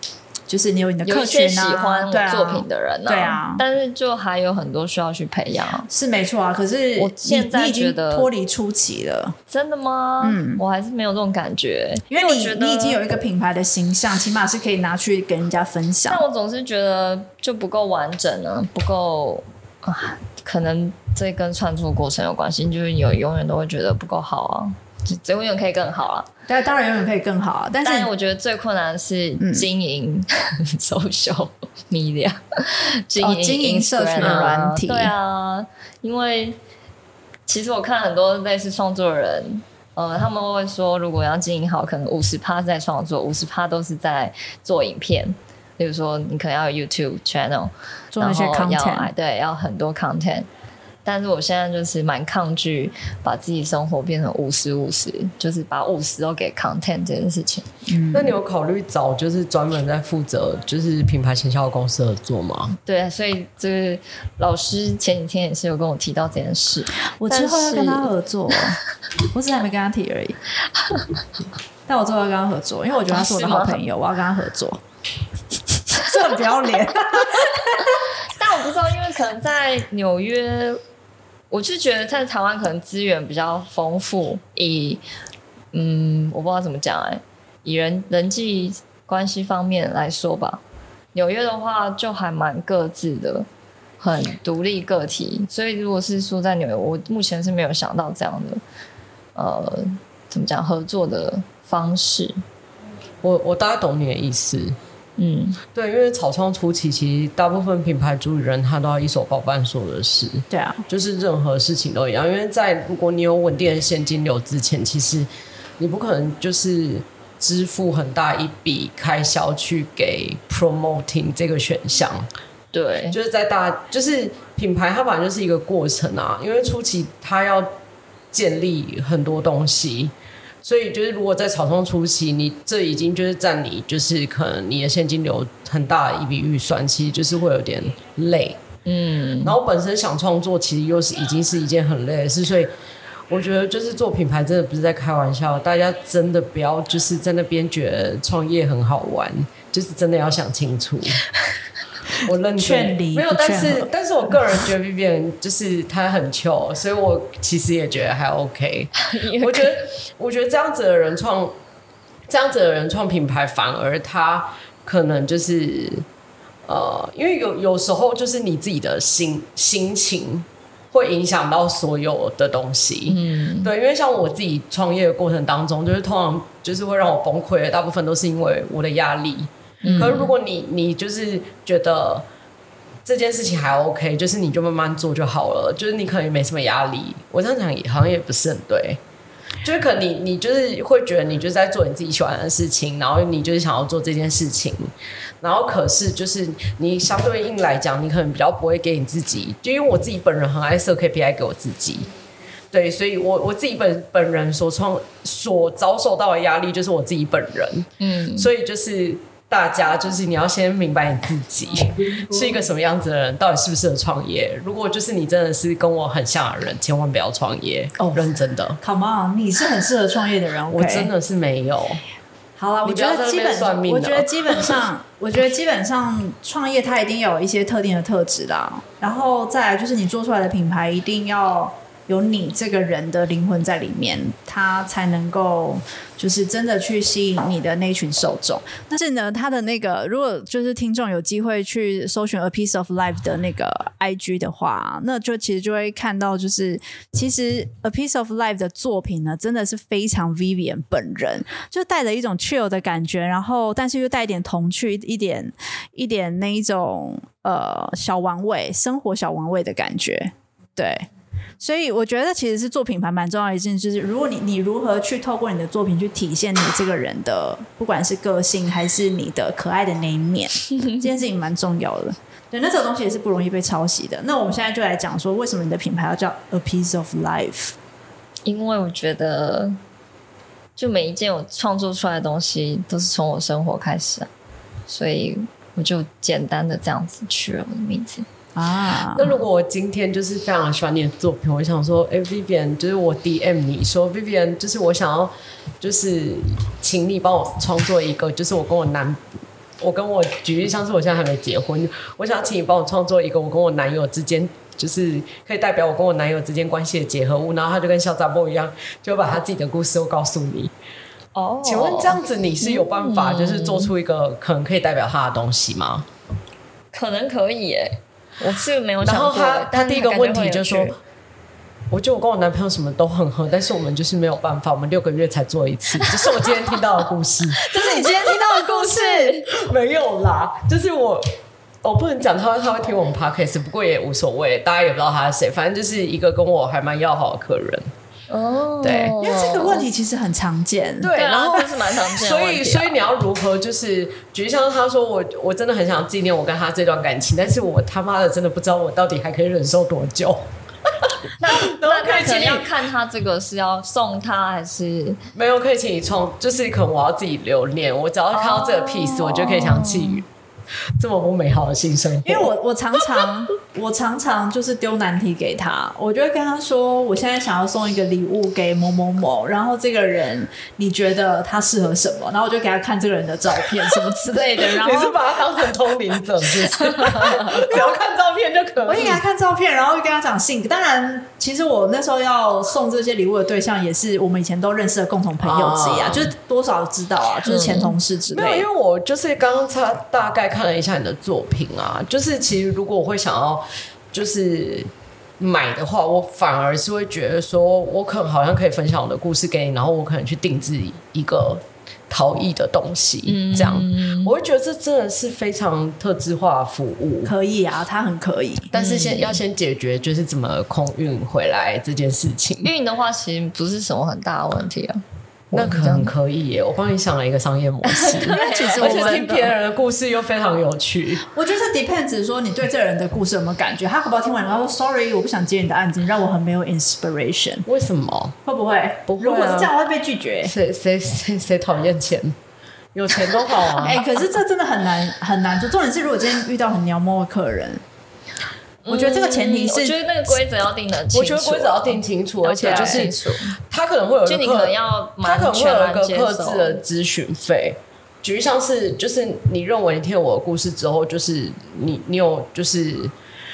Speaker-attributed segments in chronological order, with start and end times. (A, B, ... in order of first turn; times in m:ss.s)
0:00.5-0:03.6 A
0:01.0-0:05.9 B
0:05.9-0:09.4 A
0:07.0-0:08.3 B
0:09.5-0:13.0 B
0:10.2-0:10.6 A
0:12.1-0:16.2 A
0:16.1-0:26.3 B
0:26.5-0:28.1 A
0:27.8-0:36.6 B
0:29.4-0:29.7 A
0:33.2-0:35.1 A
0:34.2-0:34.5 C
0:37.5-0:50.5 B
0:48.1-0:49.1 A
0:51.0-0:57.7 B
0:57.9-0:58.4 A
0:58.1-1:02.8 C
1:02.8-1:08.1 B
1:07.2-1:08.8 A
1:09.3-1:10.4 A
1:11.9-1:14.8 A
1:13.1-1:13.8 B
1:15.9-1:18.0 A
1:17.8-1:20.8 B
1:21.5-1:25.0 B
1:25.7-1:30.6 B
1:31.1-1:33.5 B
1:34.0-1:38.6 B
1:39.4-1:42.4 B
1:43.2-1:44.8 C
1:45.2-1:45.6 B
1:45.7-1:55.3 C
1:50.5-1:50.8 A
1:55.8-2:02.3 C
2:02.7-2:03.2 B
2:03.1-2:07.7 C
2:08.3-2:10.1 C
2:10.6-2:18.6 C
2:18.9-2:19.6 B
2:19.4-2:22.7 C
2:23.3-2:31.2 C
2:32.2-2:41.6 C
2:32.6-2:33.9 A
2:39.0-2:39.9 B
2:42.3-2:46.0 C
2:46.7-3:02.3 C
2:53.1-2:53.7 B
2:59.8-3:00.3 B
2:59.9-3:00.2 A
3:03.0-3:09.0 C
3:09.6-3:14.9 C
3:15.4-3:22.1 C
3:22.7-3:38.8 C
3:28.0-3:28.5 B
3:32.3-3:32.6 A
3:38.0-3:41.1 A
3:40.7-3:42.0 C
3:42.6-4:21.1 A
3:42.8-3:44.8 C
4:21.6-4:37.8 A
4:38.5-4:39.8 B
4:40.8-4:44.3 B
4:44.9-4:48.3 B
4:48.6-4:49.4 A
4:49.2-4:59.2 C
4:59.8-5:10.7 C
5:11.3-5:13.9 B
5:11.6-5:16.1 C
5:16.9-5:21.0 B
5:19.0-5:21.0 C
5:21.9-5:27.8 C
5:26.0-5:26.5 B
5:27.6-5:29.5 B
5:27.7-5:29.4 A
5:29.5-5:31.3 C
5:31.8-5:37.9 C
5:38.3-5:39.9 B
5:38.8-5:39.2 C
5:39.2-5:41.1 A
5:41.0-5:52.7 C
5:41.1-5:43.0 B
5:51.4-5:55.2 B
5:55.4-6:00.3 C
5:58.3-6:00.2 B
6:01.0-6:02.5 C
6:02.2-6:15.7 A
6:14.6-6:19.2 C
6:17.1-6:17.5 B
6:17.5-6:18.0 A
6:18.9-6:28.7 A
6:25.4-6:26.3 C
6:27.4-6:28.0 B
6:28.3-6:47.3 C
6:43.3-6:44.4 B
6:47.2-6:48.7 A
6:48.7-6:52.7 C
6:48.7-6:49.4 B
6:52.6-6:56.1 B
6:55.5-7:01.3 C
6:57.8-6:59.5 B
6:58.3-6:59.4 A
7:01.3-7:07.7 A
7:07.7-7:08.4 C
7:08.5-7:10.5 A
7:09.1-7:09.7 C
7:10.4-7:12.4 C
7:12.9-7:14.0 C
7:13.8-7:17.8 A
7:18.8-7:23.6 B
7:18.9-7:20.0 A
7:21.1-7:33.1 C
7:22.5-7:23.1 A
7:24.3-7:26.8 B